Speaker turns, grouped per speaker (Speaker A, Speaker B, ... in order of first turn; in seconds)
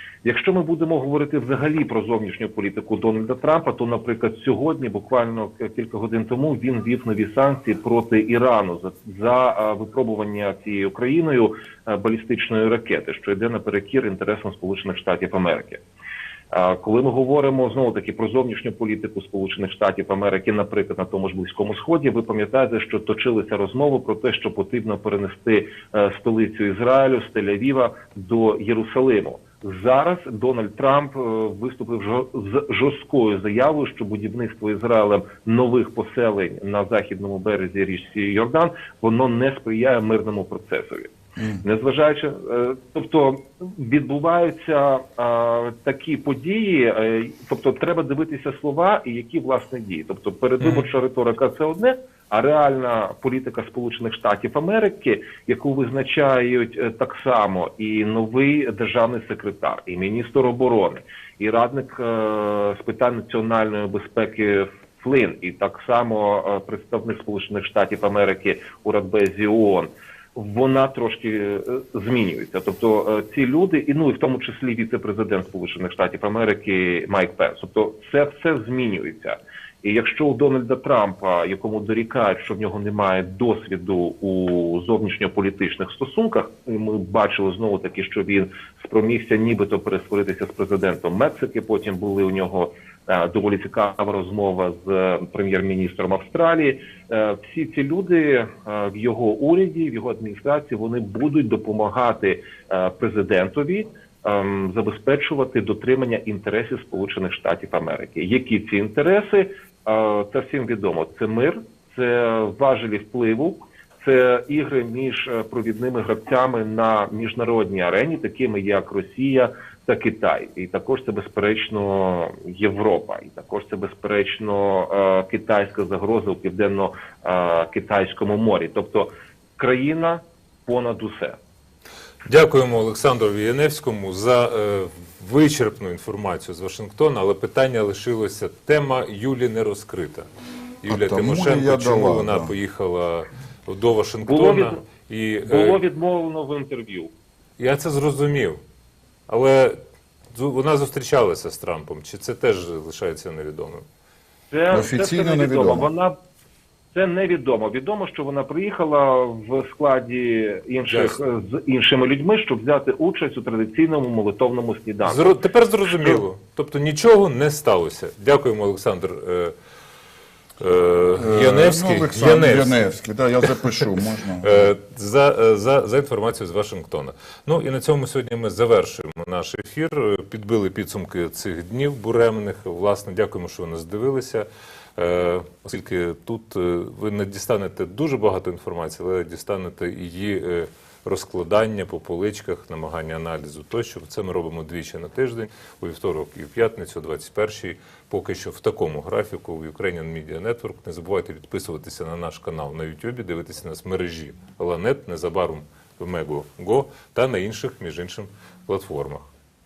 Speaker A: 0.2-15.8, 16.5-131.4, 144.2-144.8, 145.5-147.1, 154.5-156.1, 156.9-165.3
Speaker B: 132.3-140.3, 140.8-145.8, 147.6-148.6, 149.3-149.8, 150.3-153.8, 160.9-161.2, 165.0-169.5, 170.6-172.8, 174.4-209.3
Speaker C: 140.9-142.6, 154.7-155.9, 171.2-174.7